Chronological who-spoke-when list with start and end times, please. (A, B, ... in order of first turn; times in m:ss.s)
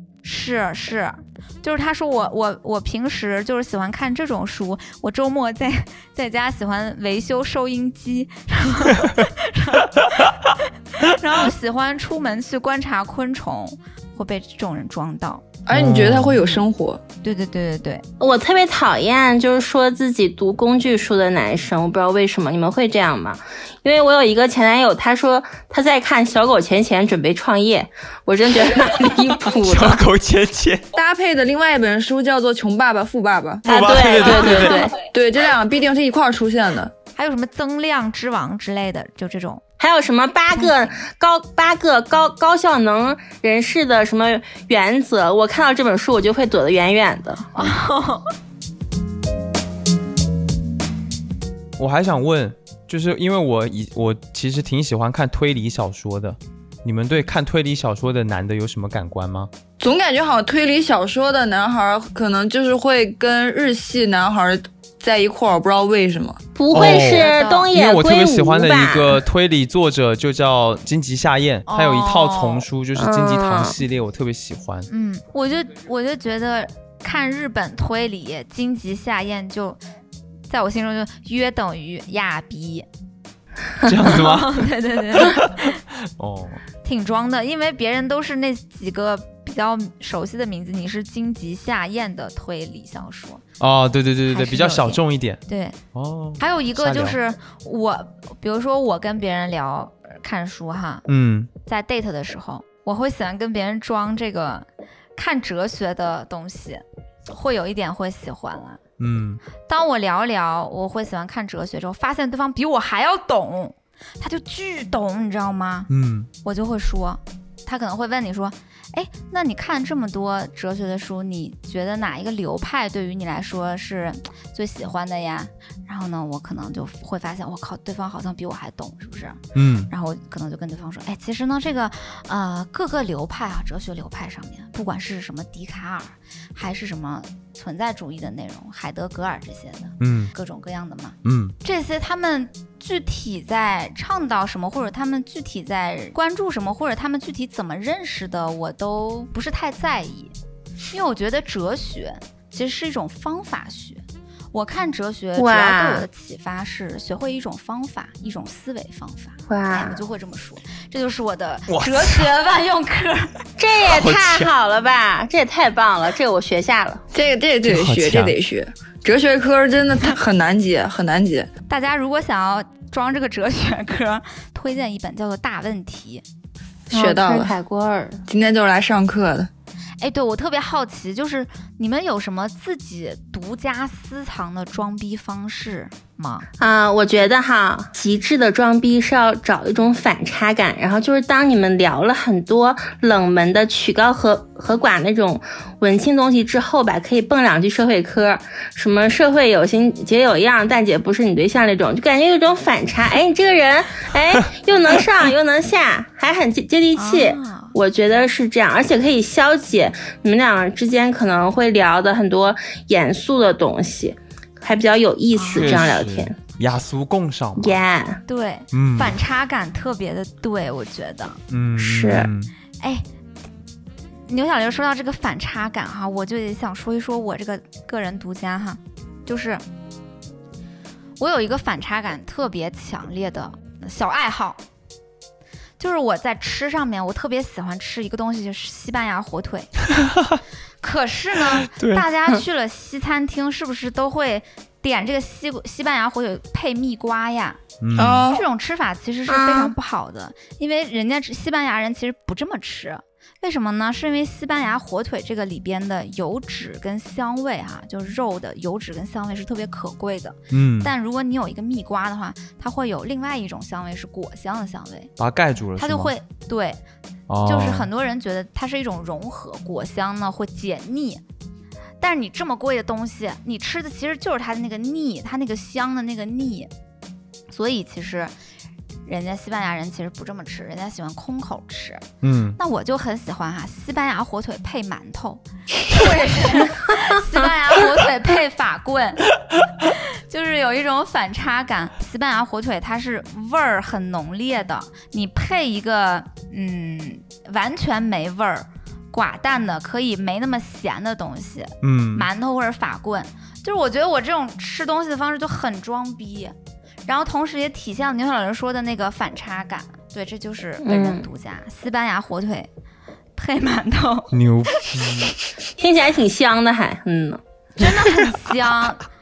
0:00.2-0:15.4 A
0:15.7-0:17.0 B
0:15.7-0:16.4 C
0:17.2-0:18.0 A
0:18.2-0:30.0 D
0:29.6-0:30.9 C
0:30.9-0:36.9 B
0:33.7-0:34.9 C
0:33.7-0:35.0 D
0:37.2-0:39.6 A
0:39.8-0:47.7 D
0:40.5-0:41.0 A
0:47.6-0:48.3 A
0:51.8-0:59.5 C
0:59.8-1:06.4 B
1:06.6-1:09.2 D
1:06.7-1:14.9 C
1:06.8-1:07.7 A
1:11.7-1:12.7 A
1:13.0-1:13.8 D
1:14.9-1:19.8 A
1:20.5-1:22.9 A
1:23.8-1:26.6 C
1:24.0-1:25.8 A
1:26.8-1:33.4 A
1:33.6-1:35.4 C
1:34.3-1:35.8 A
1:35.9-1:37.2 C
1:36.4-1:41.0 A
1:41.1-1:41.5 C
1:41.7-1:48.8 A
1:49.0-1:49.4 C
1:49.7-1:55.9 A
1:55.9-1:56.3 C
1:56.4-2:30.4 A
2:09.6-2:09.9 C
2:20.0-2:20.3 C
2:21.2-2:21.6 C
2:30.9-2:43.4 A
2:35.4-2:36.1 D
2:39.5-2:40.0 D
2:41.7-2:42.3 C
2:43.6-2:47.0 D
2:43.8-2:44.5 C
2:47.1-2:51.5 B
2:47.6-2:48.4 C
2:51.7-2:56.2 A
2:56.9-2:57.5 B
2:56.9-2:58.2 D
2:58.3-2:59.5 B
3:00.0-3:06.5 A
3:06.6-3:36.4 D
3:27.0-3:27.8 A
3:35.3-3:35.8 A
3:35.5-3:37.8 C
3:37.6-3:38.2 D
3:38.3-3:41.4 A
3:38.7-3:39.2 C
3:41.5-3:42.5 C
3:41.8-3:42.3 D
3:44.3-3:49.6 A
3:51.2-3:54.6 A
3:55.8-3:59.7 A
3:59.9-4:00.4 C
4:00.8-4:07.6 A
4:01.7-4:02.1 C
4:07.8-4:08.3 C
4:08.0-4:08.4 B
4:08.3-4:25.1 A
4:09.3-4:09.7 D
4:20.5-4:20.9 C
4:25.2-4:26.1 C
4:25.8-4:26.8 A
4:27.3-4:27.9 C
4:27.4-4:31.2 A
4:32.0-4:36.7 A
4:37.5-4:38.3 A
4:39.1-4:42.0 A
4:42.2-4:42.6 C
4:42.6-5:06.5 A
5:01.8-5:02.3 C
5:07.1-5:12.7 A
5:10.8-5:11.3 D
5:13.4-5:14.3 A
5:14.3-5:15.4 C
5:15.8-5:18.2 D
5:17.8-5:19.0 A